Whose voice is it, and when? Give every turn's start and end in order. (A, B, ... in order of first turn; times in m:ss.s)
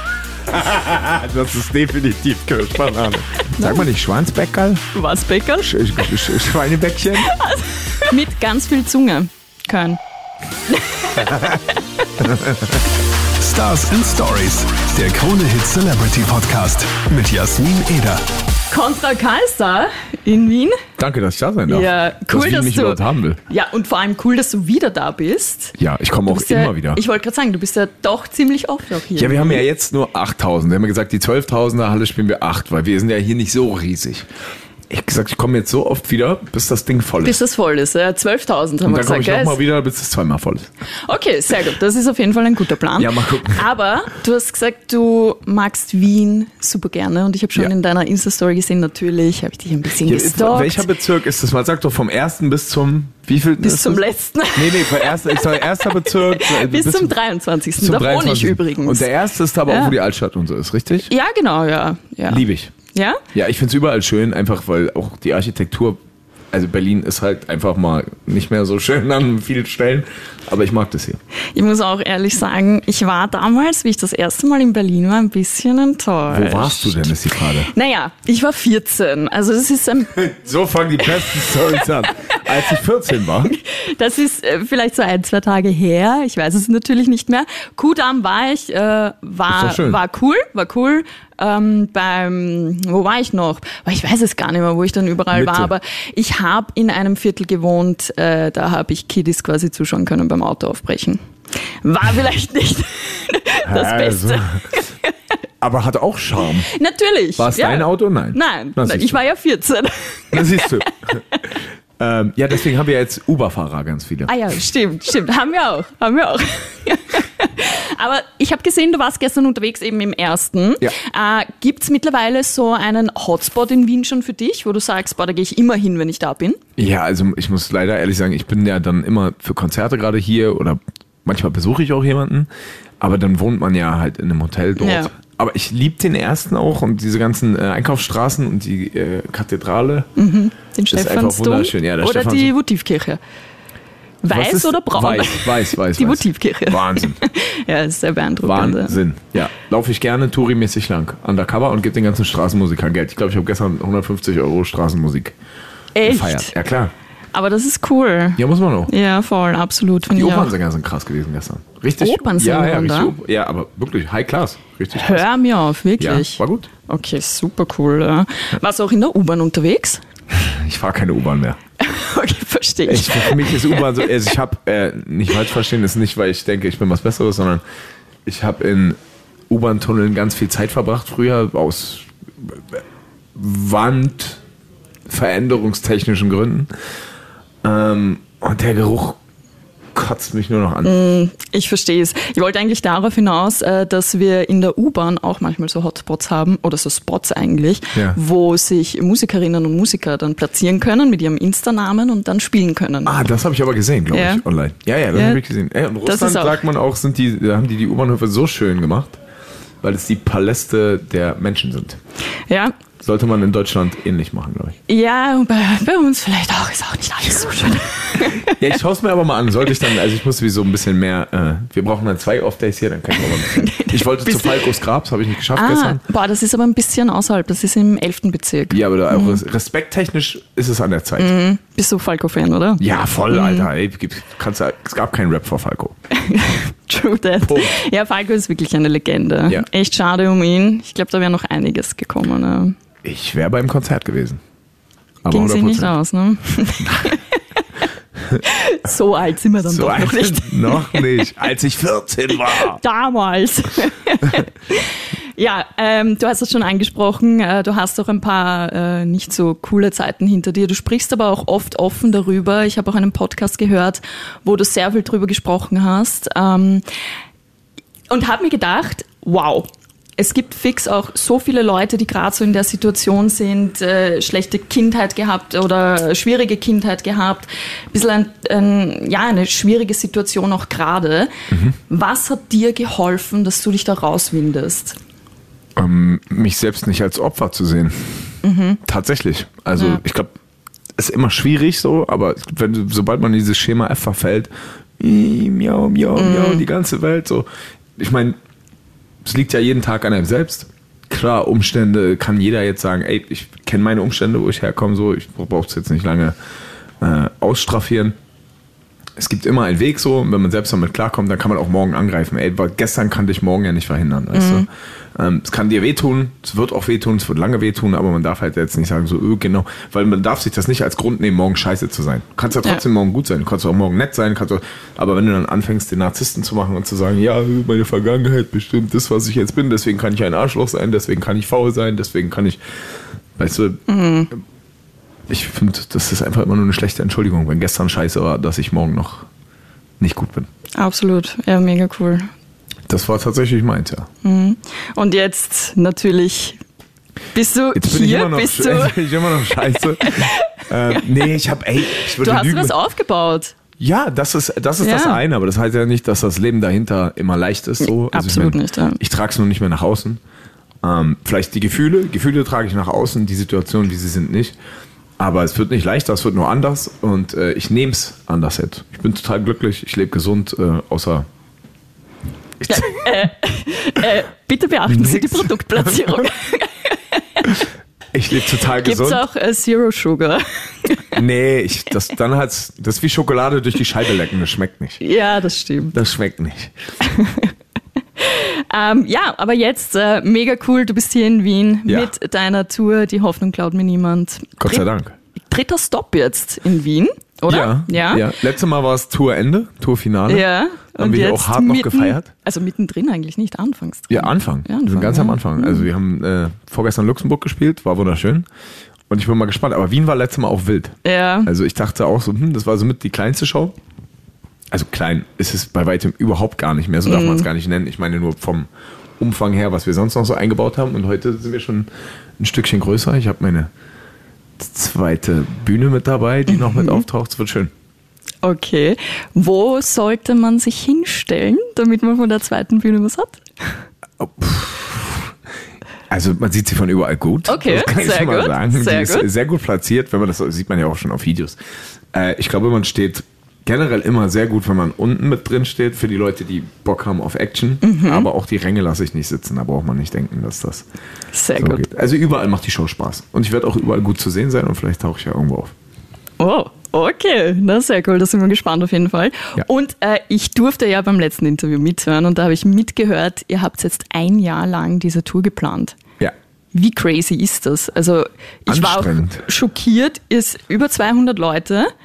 0:00.5-0:04.8 A
0:03.6-0:03.9 B
0:04.9-0:05.8 B
0:05.6-0:07.3 A
0:07.2-0:10.0 B
0:10.7-0:11.6 B
0:12.2-0:12.8 A
0:13.4-0:18.2 C
0:18.7-0:20.8 B
0:21.0-0:23.4 A
0:21.7-0:25.8 B
0:25.8-0:27.0 A
0:26.3-0:29.6 B
0:29.1-0:34.3 A
0:34.9-0:37.4 A
0:37.2-0:39.6 B
0:38.8-0:40.7 A
0:41.0-0:50.8 B
0:43.0-0:43.6 A
0:50.0-0:54.0 A
0:53.6-0:59.1 B
0:54.5-0:57.1 A
0:57.8-1:01.1 A
0:59.6-1:00.0 B
1:01.1-1:03.2 B
1:02.3-1:02.7 A
1:03.3-1:06.0 A
1:06.5-1:11.2 A
1:11.5-1:17.1 B
1:16.3-1:17.7 A
1:17.7-1:20.3 B
1:20.2-1:23.5 A
1:23.5-1:45.1 B
1:29.5-1:30.0 A
1:35.3-1:35.7 A
1:43.6-1:44.6 A
1:45.6-1:46.7 A
1:46.7-1:50.9 B
1:47.4-1:49.2 A
1:50.3-1:51.2 A
1:52.0-1:54.3 A
1:54.3-2:06.6 B
2:06.8-2:12.5 A
2:13.0-2:20.1 A
2:14.8-2:15.1 B
2:20.2-2:23.2 B
2:20.9-2:22.5 A
2:24.2-2:29.0 B
2:24.3-2:27.2 A
2:28.4-2:35.4 A
2:35.9-2:36.5 B
2:36.0-2:36.9 A
2:37.3-2:40.5 B
2:38.4-2:38.9 A
2:40.1-2:45.2 A
2:42.0-2:43.1 B
2:44.9-2:50.0 B
2:46.0-2:46.7 A
2:50.3-2:51.6 A
2:51.8-2:54.1 B
2:52.8-2:57.6 A
2:58.2-2:59.0 A
2:59.5-3:02.8 A
3:03.3-3:04.4 A
3:05.1-3:06.7 A
3:07.6-3:09.2 A
3:09.9-3:10.9 A
3:10.8-3:23.2 B
3:23.0-3:29.2 A
3:24.1-3:24.4 B
3:25.1-3:25.4 B
3:26.0-3:26.6 B
3:29.8-3:32.0 A
3:32.5-3:32.7 B
3:33.0-3:34.8 A
3:34.9-3:38.6 B
3:38.1-3:46.0 A
3:43.5-3:44.6 B
3:45.5-3:49.4 B
3:48.7-3:51.3 A
3:51.2-3:53.7 B
3:52.8-3:55.9 A
3:56.1-4:02.8 B
3:57.4-3:57.8 A
4:03.0-4:04.4 A
4:05.2-4:05.9 A
4:05.3-4:07.6 B
4:06.8-4:07.1 A
4:08.4-4:11.2 B
4:09.6-4:12.8 A
4:12.4-4:26.8 B
4:28.1-4:41.3 B
4:41.5-4:41.8 A
4:41.9-4:45.0 B
4:45.8-4:48.2 A
4:48.4-4:48.8 B
4:48.8-4:50.3 A
4:51.0-4:58.4 A
4:56.1-4:56.7 B
4:59.2-5:06.4 A
5:07.0-5:08.2 A
5:09.2-5:32.6 A
5:14.3-5:14.7 B
5:33.4-5:33.8 A
5:33.9-5:34.3 B
5:35.3-5:39.3 A
5:40.0-5:40.5 A
5:40.8-5:42.3 B
5:42.9-5:44.1 A
5:44.2-5:46.6 B
5:47.3-5:51.0 B
5:47.7-5:52.7 A
5:52.2-5:53.5 B
5:53.8-6:00.2 A
5:54.8-5:55.2 B
5:57.8-5:59.0 B
6:00.8-6:04.6 A
6:05.2-6:11.2 A
6:12.6-6:13.2 A
6:12.7-6:17.5 B
6:14.8-6:16.2 A
6:18.1-6:19.2 A
6:18.6-6:21.2 B
6:21.1-6:25.0 A
6:25.0-6:25.9 B
6:25.9-6:26.7 A
6:27.0-6:27.5 B
6:28.2-6:34.8 B
6:31.9-6:32.1 A
6:34.6-6:35.2 A
6:35.4-6:38.3 B
6:37.5-6:42.3 A
6:40.3-6:45.8 B
6:44.1-6:48.4 A
6:49.1-6:53.7 A
6:51.0-6:51.5 B
6:54.7-6:58.7 A
6:57.0-6:57.5 B
6:59.2-7:01.9 A
7:02.4-7:03.7 A
7:04.6-7:07.7 A
7:06.5-7:07.0 B
7:08.4-7:13.4 B
7:14.2-7:15.3 A
7:16.1-7:21.6 A
7:17.5-7:19.3 B
7:22.1-7:30.8 A
7:27.8-7:28.3 B
7:31.3-7:31.8 B
7:31.6-7:35.7 A
7:36.4-7:46.0 B
7:46.7-7:51.9 B
7:48.7-7:49.4 A